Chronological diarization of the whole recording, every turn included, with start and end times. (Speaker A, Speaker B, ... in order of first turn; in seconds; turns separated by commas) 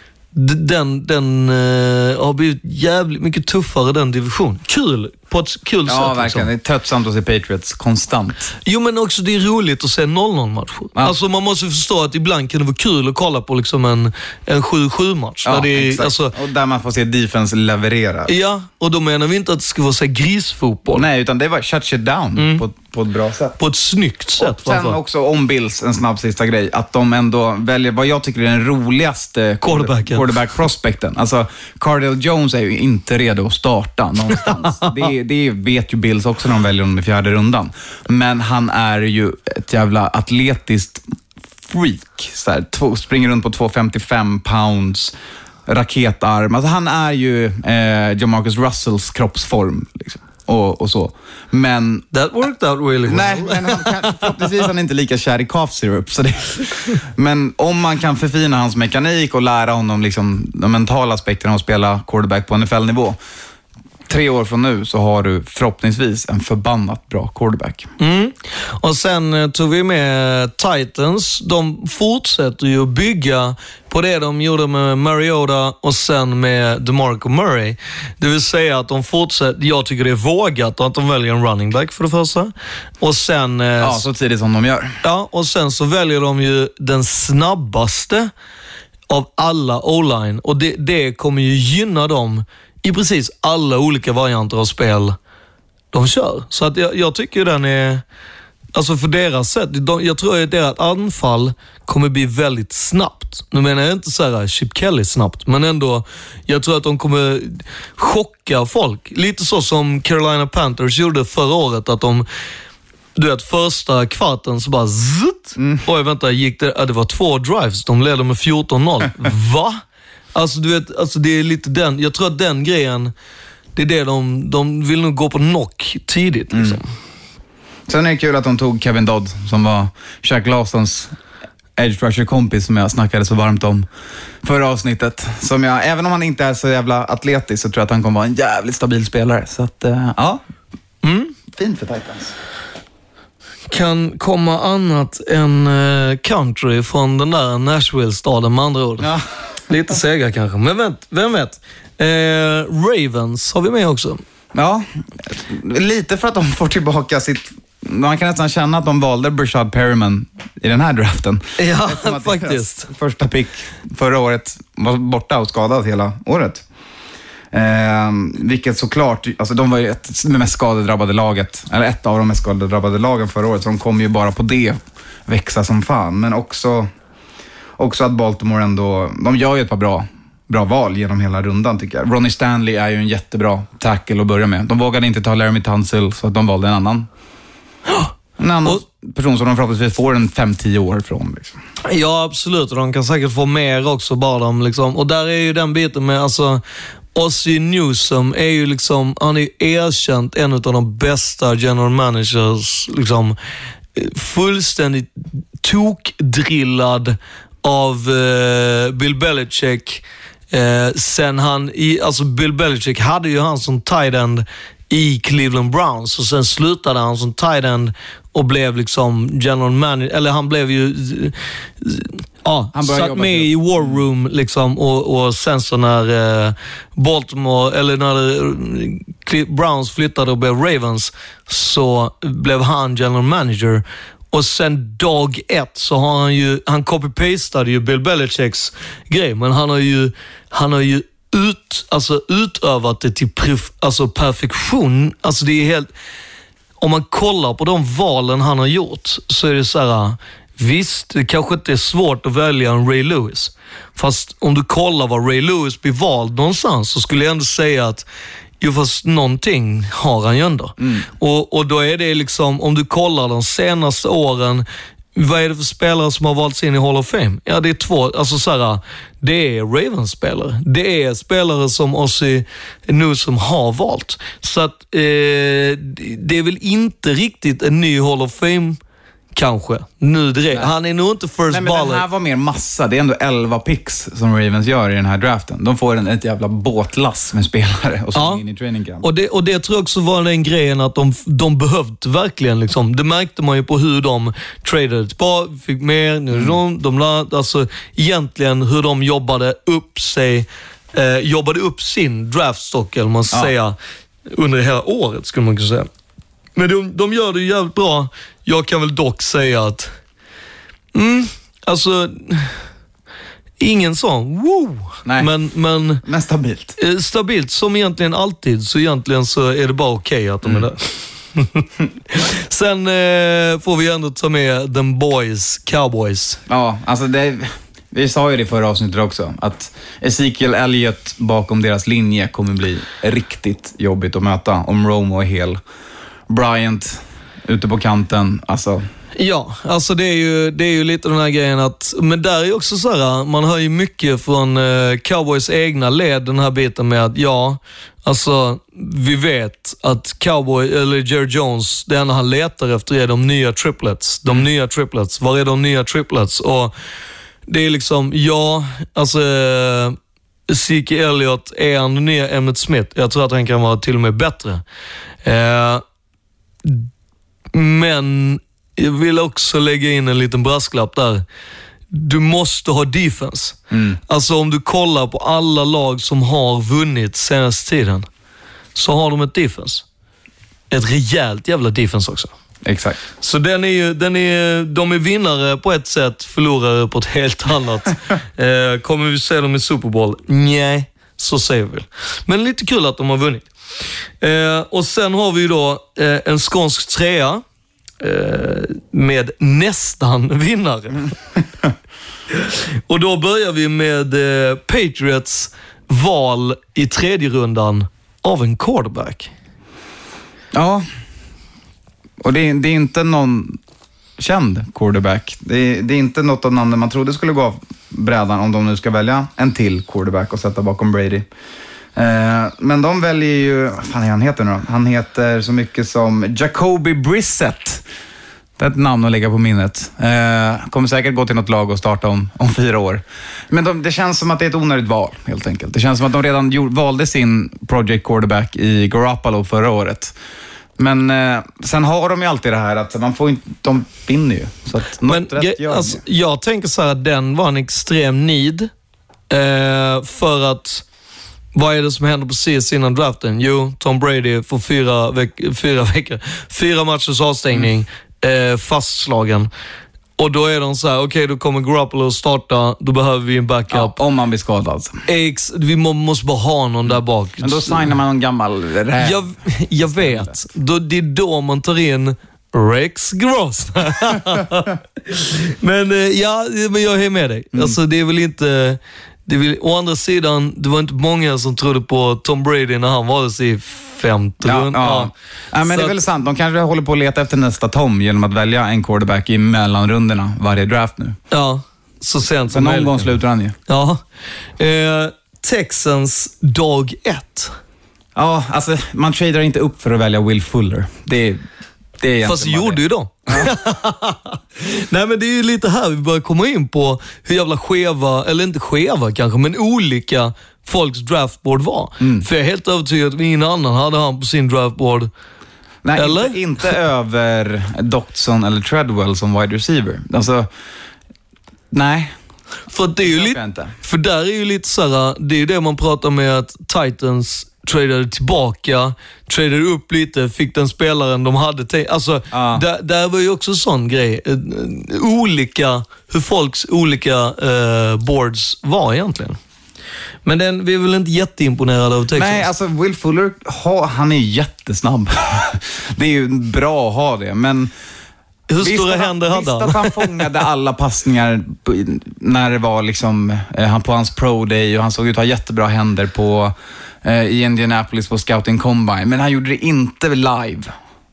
Speaker A: 0.3-6.5, Speaker B: 5.8-8.5, Speaker A: 8.6-16.3, Speaker B: 15.4-18.3, Speaker A: 18.3-21.1, Speaker B: 20.9-23.6, Speaker A: 22.4-22.6, Speaker A: 23.6-25.0, Speaker B: 24.4-41.0, Speaker A: 29.6-30.3, Speaker A: 34.4-34.9, Speaker B: 41.6-45.1, Speaker B: 45.7-52.0, Speaker A: 52.1-54.3, Speaker B: 53.0-63.2, Speaker B: 64.1-67.9, Speaker A: 68.0-84.0, Speaker B: 83.8-85.0, Speaker A: 85.0-88.3, Speaker A: 89.1-95.2, Speaker A: 95.9-98.0, Speaker A: 98.7-112.2, Speaker A: 113.2-119.8, Speaker B: 115.6-115.8, Speaker A: 120.3-123.1, Speaker A: 123.7-126.9, Speaker B: 126.5-126.8, Speaker B: 127.9-131.1, Speaker B: 131.8-133.9, Speaker B: 134.4-140.4, Speaker A: 141.0-141.3, Speaker B: 141.5-142.3, Speaker A: 143.7-149.1, Speaker B: 149.0-149.2, Speaker A: 149.7-154.2, Speaker B: 154.5-166.6, Speaker A: 161.6-162.9, Speaker B: 167.5-176.9, Speaker B: 177.8-187.1, Speaker A: 187.9-188.1, Speaker B: 188.4-191.6, Speaker A: 191.8-196.6, Speaker A: 197.1-203.4, Speaker A: 203.9-245.9, Speaker B: 222.7-224.0, Speaker A: 246.8-258.0, Speaker A: 258.6-278.8, Speaker B: 260.8-261.1, Speaker A: 279.3-282.0, Speaker B: 281.5-289.1, Speaker A: 288.1-288.4, Speaker A: 289.0-303.8, Speaker A: 304.3-305.9, Speaker A: 306.5-309.9, Speaker A: 310.9-312.6, Speaker A: 313.6-316.0, Speaker B: 315.1-315.3, Speaker B: 316.0-316.8, Speaker A: 316.8-326.4, Speaker B: 326.5-335.6, Speaker B: 336.3-338.8, Speaker A: 339.2-356.7, Speaker A: 357.5-359.9, Speaker A: 360.5-364.6, Speaker A: 365.2-365.8, Speaker A: 366.6-366.9, Speaker A: 367.5-371.2, Speaker A: 371.9-378.1, Speaker B: 373.7-374.0, Speaker A: 378.7-379.8, Speaker A: 380.7-382.3, Speaker B: 382.6-383.0, Speaker A: 383.2-393.4, Speaker A: 394.2-397.4, Speaker A: 398.0-401.1, Speaker A: 402.3-409.3, Speaker B: 410.5-410.8, Speaker B: 412.2-413.6, Speaker B: 414.2-421.2, Speaker B: 421.9-427.8, Speaker B: 428.6-440.1, Speaker B: 440.8-446.0, Speaker A: 445.0-448.7, Speaker A: 449.3-450.8, Speaker A: 451.5-459.5, Speaker A: 460.2-464.0, Speaker B: 463.7-465.0, Speaker A: 465.1-467.9, Speaker B: 467.4-470.4, Speaker A: 469.0-485.1, Speaker B: 484.4-491.2, Speaker A: 485.6-486.0, Speaker A: 491.3-494.0, Speaker B: 492.5-493.5, Speaker A: 494.6-497.5, Speaker B: 498.1-501.4, Speaker B: 502.0-503.5, Speaker A: 502.2-515.1, Speaker B: 512.0-512.2, Speaker B: 515.8-520.5, Speaker A: 516.0-516.4, Speaker B: 521.7-522.1, Speaker A: 522.7-539.4, Speaker B: 523.0-523.7, Speaker B: 532.3-532.6, Speaker A: 540.2-542.5, Speaker B: 542.1-547.7, Speaker A: 548.5-550.2, Speaker B: 548.6-560.7